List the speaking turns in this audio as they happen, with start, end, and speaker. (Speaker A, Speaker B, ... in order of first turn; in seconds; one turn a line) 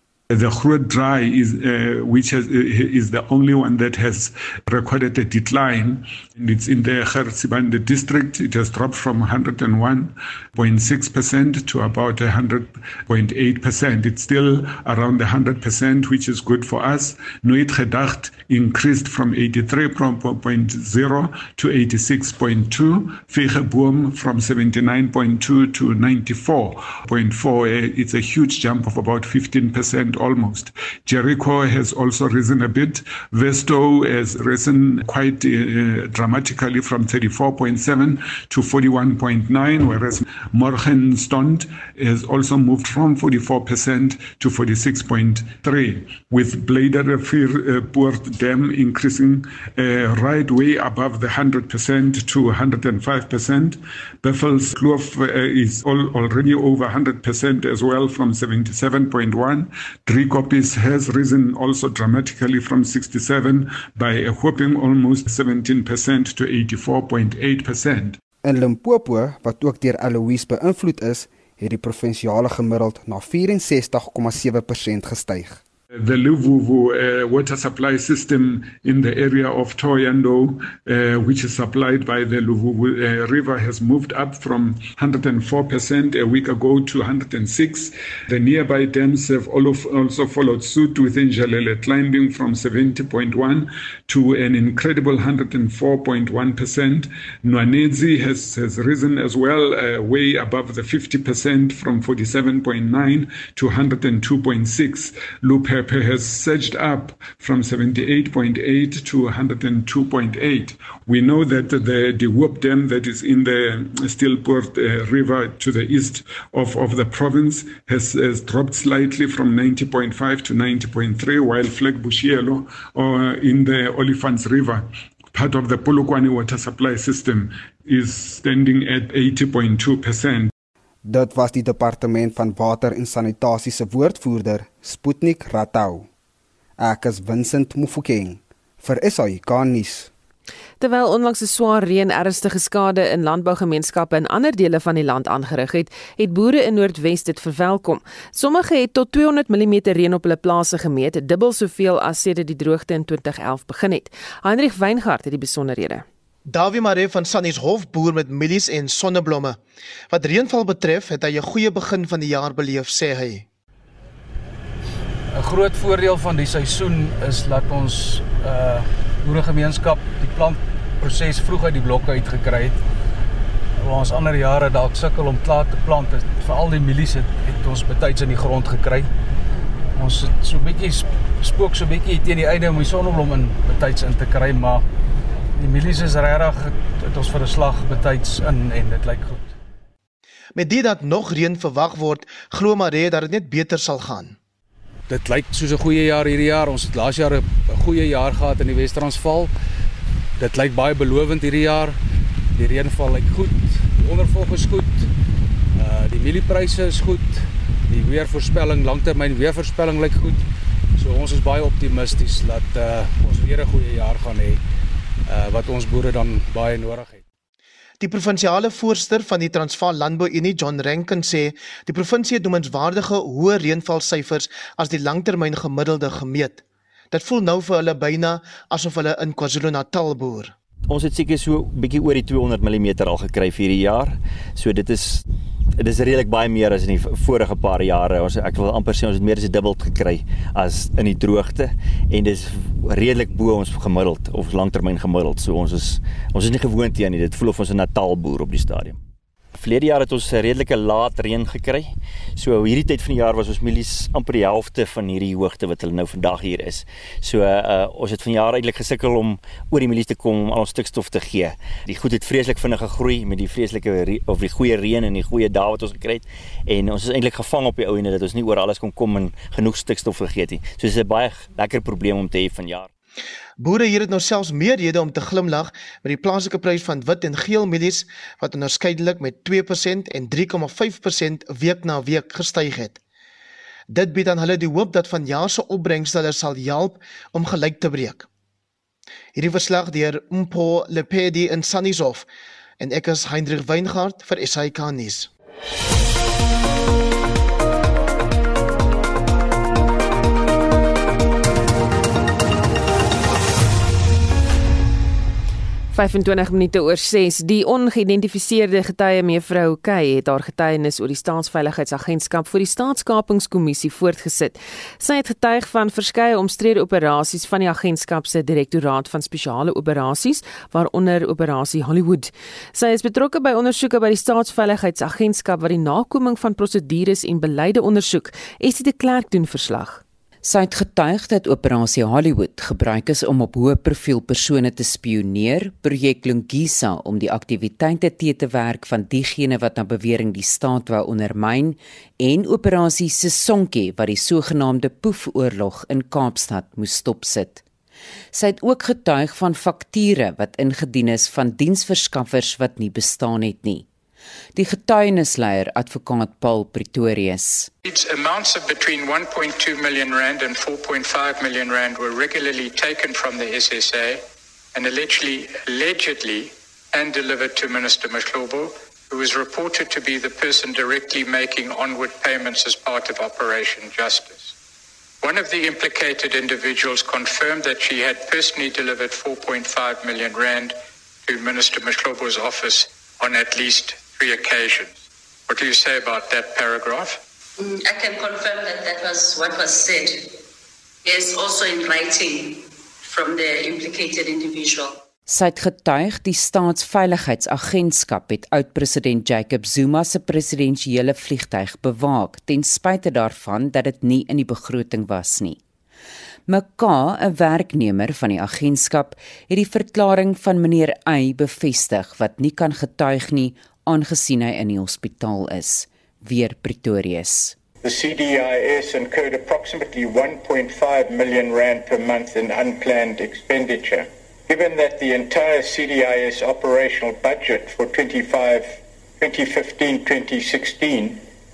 Speaker A: 0.3-68.2
Speaker B: 68.4-75.6
Speaker A: 75.9-130.5
Speaker B: 131.0-136.1
Speaker B: 136.8-140.1
Speaker C: 140.8-156.0
Speaker D: 156.5-159.6
Speaker D: 160.1-163.4
Speaker E: 165.3-172.8
Speaker E: 173.8-179.1
Speaker E: 179.9-184.8
Speaker E: 185.6-189.5
Speaker D: 190.6-194.3
Speaker E: 195.1-199.5
Speaker E: 200.4-201.9
Speaker E: 202.5-205.1
Speaker E: 205.7-210.4
Speaker E: 211.0-214.6
Speaker E: 215.3-217.2
Speaker D: 218.0-230.5
Speaker F: 230.9-235.2
Speaker F: 235.8-249.0
Speaker F: 249.5-272.9
Speaker D: 273.6-283.0
Speaker D: 283.9-288.3
Speaker D: 289.4-292.3
Speaker D: 292.8-295.3
Speaker C: 305.9-330.0
Speaker G: 330.4-347.6
Speaker G: 348.3-353.9
Speaker G: 354.5-357.7
Speaker H: 357.8-364.2
Speaker H: 364.7-374.5
Speaker H: 375.2-380.7
Speaker H: 381.2-387.2
Speaker I: 387.6-390.3
Speaker I: 391.0-395.0
Speaker G: 395.3-405.6
Speaker G: 406.5-417.6
Speaker H: 417.8-431.2